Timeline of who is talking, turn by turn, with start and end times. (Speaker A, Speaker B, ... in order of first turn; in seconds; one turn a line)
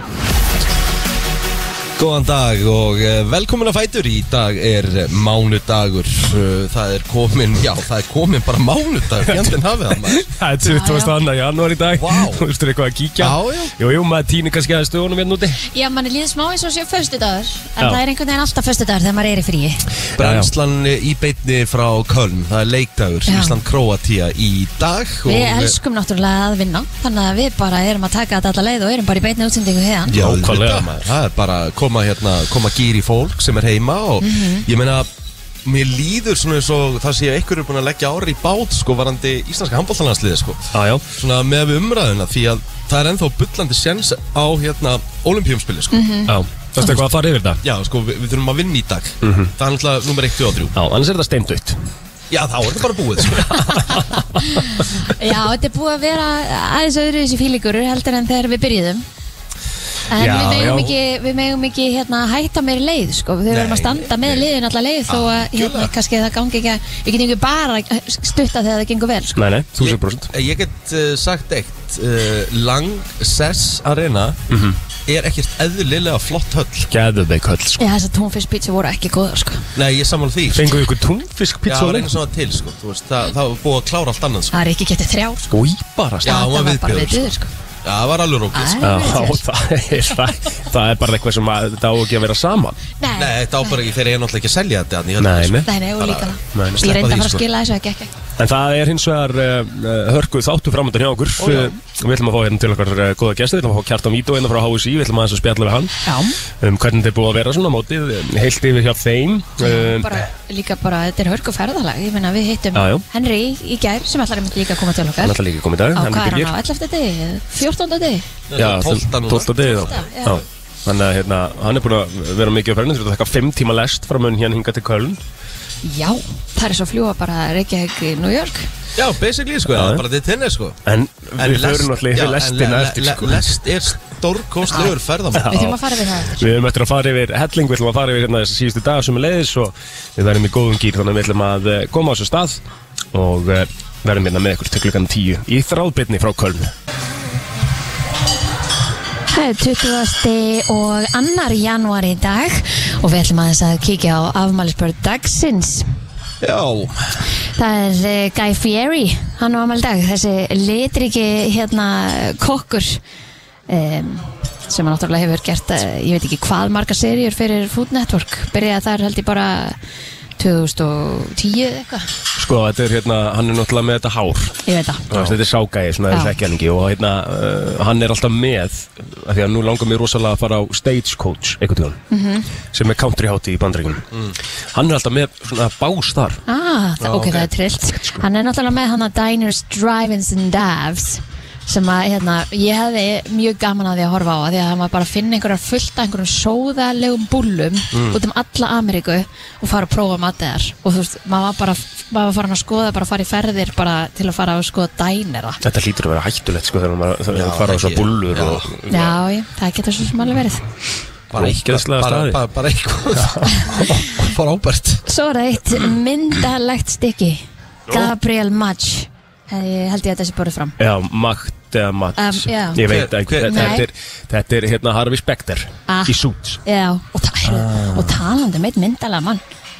Speaker A: 2.0-10.3
Speaker B: 9.3-15.6
Speaker C: 10.6-11.2
Speaker A: 12.0-12.5
Speaker A: 13.2-13.7
Speaker C: 15.7-19.8
Speaker B: 20.2-20.5
Speaker A: 20.2-25.8
Speaker C: 23.3-23.6
Speaker C: 25.3-30.2
Speaker A: 30.1-35.1
Speaker B: 30.1-31.0
Speaker C: 34.2-34.6
Speaker A: 35.6-46.0
Speaker B: 40.7-41.0
Speaker C: 45.9-46.3
Speaker B: 46.3-47.6
Speaker A: 47.6-50.7
Speaker B: 49.2-49.5
Speaker B: 50.8-51.8
Speaker A: 52.3-54.2
Speaker C: 54.4-59.0
Speaker C: 60.1-69.4
Speaker A: 60.2-60.9
Speaker B: 60.2-60.9
Speaker A: 63.5-64.5
Speaker A: 65.1-65.9
Speaker B: 69.4-70.3
Speaker A: 69.8-74.4
Speaker B: 74.5-74.8
Speaker A: 75.1-76.9
Speaker B: 76.9-77.8
Speaker C: 77.8-79.6
Speaker A: 79.8-80.8
Speaker B: 80.5-82.2
Speaker A: 81.7-84.5
Speaker C: 84.5-85.5
Speaker B: 85.5-86.3
Speaker A: 86.2-87.2
Speaker C: 86.2-87.5
Speaker A: 87.8-88.8
Speaker C: 88.5-89.4
Speaker B: 88.8-92.8
Speaker C: 93.0-93.7
Speaker A: 93.1-97.4
Speaker B: 95.2-95.7
Speaker C: 95.7-98.1
Speaker B: 96.5-97.2
Speaker B: 98.4-105.9
Speaker A: 101.4-101.7
Speaker C: 106.0-106.4
Speaker B: 106.6-110.2
Speaker C: 109.6-115.3
Speaker B: 112.7-113.0
Speaker B: 115.2-116.5
Speaker C: 115.9-118.2
Speaker A: 118.5-119.9
Speaker B: 118.5-125.2
Speaker C: 119.6-120.4
Speaker C: 125.8-128.7
Speaker A: 129.0-130.8
Speaker B: 129.7-130.0
Speaker B: 130.8-133.6
Speaker A: 131.4-135.7
Speaker C: 134.7-136.4
Speaker B: 134.8-135.8
Speaker B: 136.4-142.6
Speaker B: 143.1-146.7
Speaker C: 149.3-155.9
Speaker A: 156.4-157.1
Speaker C: 157.6-163.0
Speaker C: 163.7-169.8
Speaker C: 170.4-172.1
Speaker B: 172.4-174.6
Speaker C: 174.7-175.1
Speaker B: 175.1-182.0
Speaker C: 182.1-182.5
Speaker B: 182.7-184.1
Speaker B: 184.7-186.4
Speaker C: 186.5-205.6
Speaker A: 187.0-187.5
Speaker B: 188.0-188.2
Speaker A: 197.9-198.2
Speaker B: 205.6-208.9
Speaker A: 207.3-208.7
Speaker C: 208.9-210.7
Speaker A: 211.3-215.0
Speaker B: 211.3-212.4
Speaker B: 213.2-214.0
Speaker C: 215.1-220.8
Speaker B: 220.8-226.6
Speaker C: 222.2-222.8
Speaker A: 222.8-223.8
Speaker C: 223.4-223.9
Speaker C: 225.9-229.4
Speaker B: 227.5-227.9